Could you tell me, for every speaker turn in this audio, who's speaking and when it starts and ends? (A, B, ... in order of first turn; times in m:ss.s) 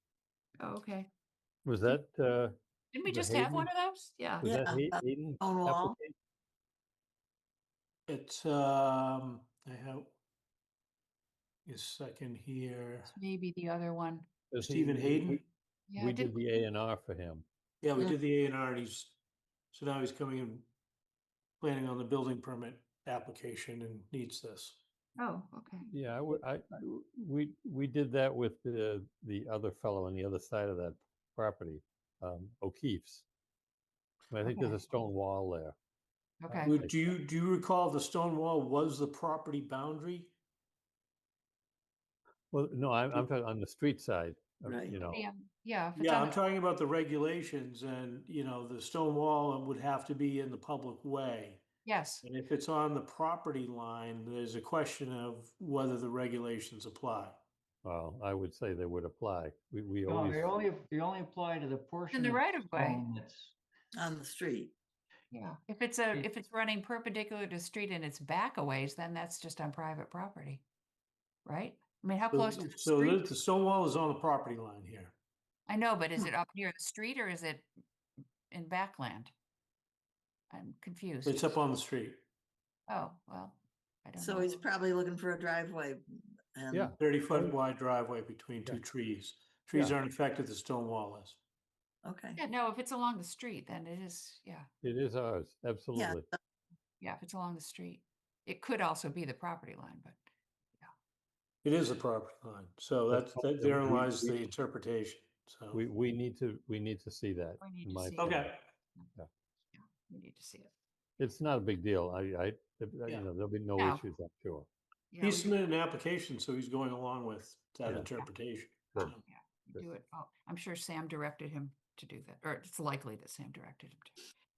0:00.6-0:01.1 A
0:01.6-0:03.7 B
0:02.9-0:04.5 A
0:04.4-0:06.1 B
0:04.4-0:06.0 C
0:08.1-0:10.1 D
0:11.7-0:13.1 D
0:13.1-0:14.3 A
0:14.5-0:15.4 B
0:14.6-0:15.4 D
0:15.9-0:16.5 A
0:16.0-0:17.5 B
0:17.8-0:19.2 D
0:19.7-0:20.7 D
0:21.6-0:24.8 D
0:25.2-0:25.9 A
0:25.9-0:33.3 B
0:34.3-0:35.8 B
0:34.4-0:34.8 A
0:36.4-0:36.8 A
0:36.5-0:37.1 B
0:36.6-0:40.3 D
0:42.5-0:45.3 B
0:44.6-0:45.0 C
0:45.0-0:46.4 A
0:46.0-0:51.6 D
0:51.8-0:52.2 A
0:52.2-0:57.4 D
0:57.8-1:00.6 B
1:00.1-1:03.5 E
1:02.1-1:03.1 A
1:04.0-1:04.7 C
1:05.3-1:10.6 A
1:11.5-1:13.3 A
1:12.3-1:15.2 D
1:15.7-1:17.7 A
1:18.5-1:19.3 A
1:20.5-1:21.6 A
1:21.2-1:22.2 D
1:22.9-1:24.6 A
1:24.2-1:27.0 C
1:26.7-1:27.5 B
1:27.0-1:31.4 D
1:32.0-1:32.4 C
1:32.4-1:34.7 A
1:34.8-1:36.3 B
1:36.0-1:36.4 C
1:37.0-1:40.2 A
1:41.6-1:45.8 D
1:43.1-1:44.5 B
1:45.7-1:48.6 B
1:47.6-1:48.5 A
1:48.2-1:48.7 D
1:49.7-1:50.7 A
1:51.2-1:54.7 B
1:53.8-1:54.0 A
1:55.1-1:55.6 A
1:55.2-1:59.2 D
1:59.2-2:04.3 A